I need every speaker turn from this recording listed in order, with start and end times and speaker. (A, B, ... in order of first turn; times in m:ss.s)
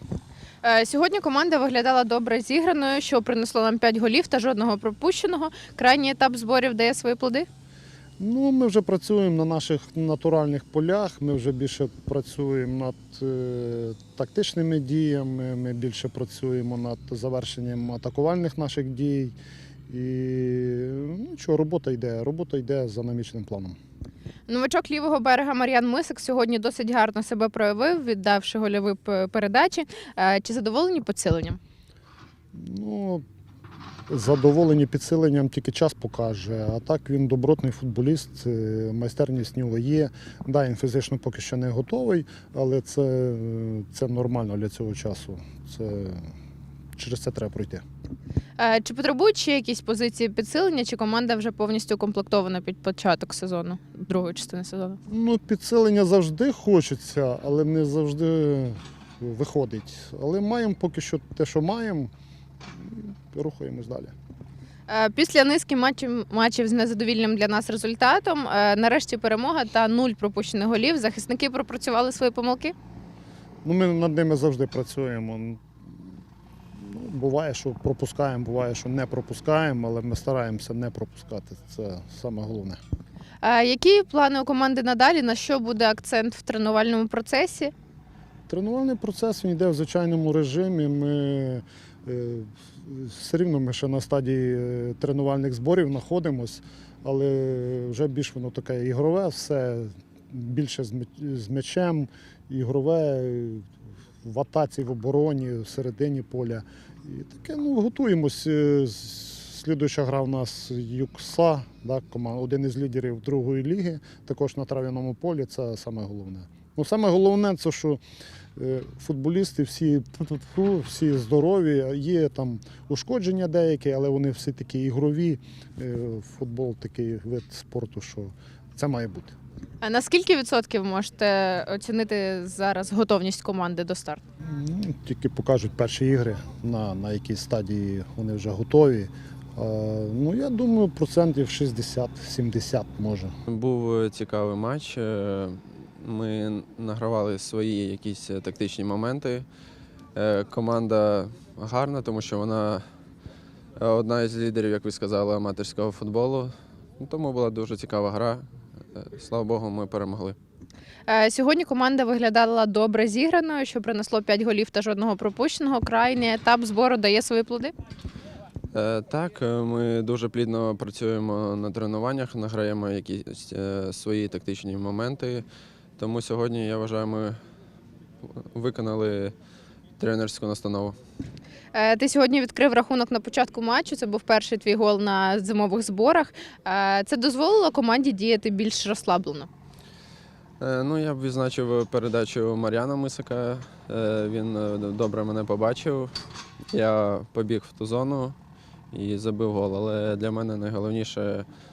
0:00.6-0:07.5 A
0:08.2-0:19.3 B
0:19.9-0:23.8 B
0:24.5-0:31.6 A
0:32.5-0:33.2 B
0:34.1-0:46.3 B
0:47.0-0:47.8 B
0:48.6-0:55.0 A
0:55.1-1:02.1 B
1:02.7-1:04.1 B
1:04.9-1:12.7 A
1:13.6-1:16.0 B
1:16.8-1:22.8 B
1:23.4-1:27.7 A
1:28.5-1:43.6 B
1:44.2-1:58.0 B
1:58.6-2:09.4 B
2:09.8-2:14.2 A
2:14.4-2:23.3 B
2:23.5-2:29.4 C
2:30.1-2:32.8 C
2:33.8-2:40.4 C
2:41.1-2:47.7 A
2:48.7-2:55.4 C
2:56.0-2:57.4 C
2:58.5-2:59.3 C
3:00.0-3:01.0 C
3:01.7-3:09.5 A
3:10.6-3:16.1 C
3:16.7-3:18.4 C
3:18.9-3:21.5 C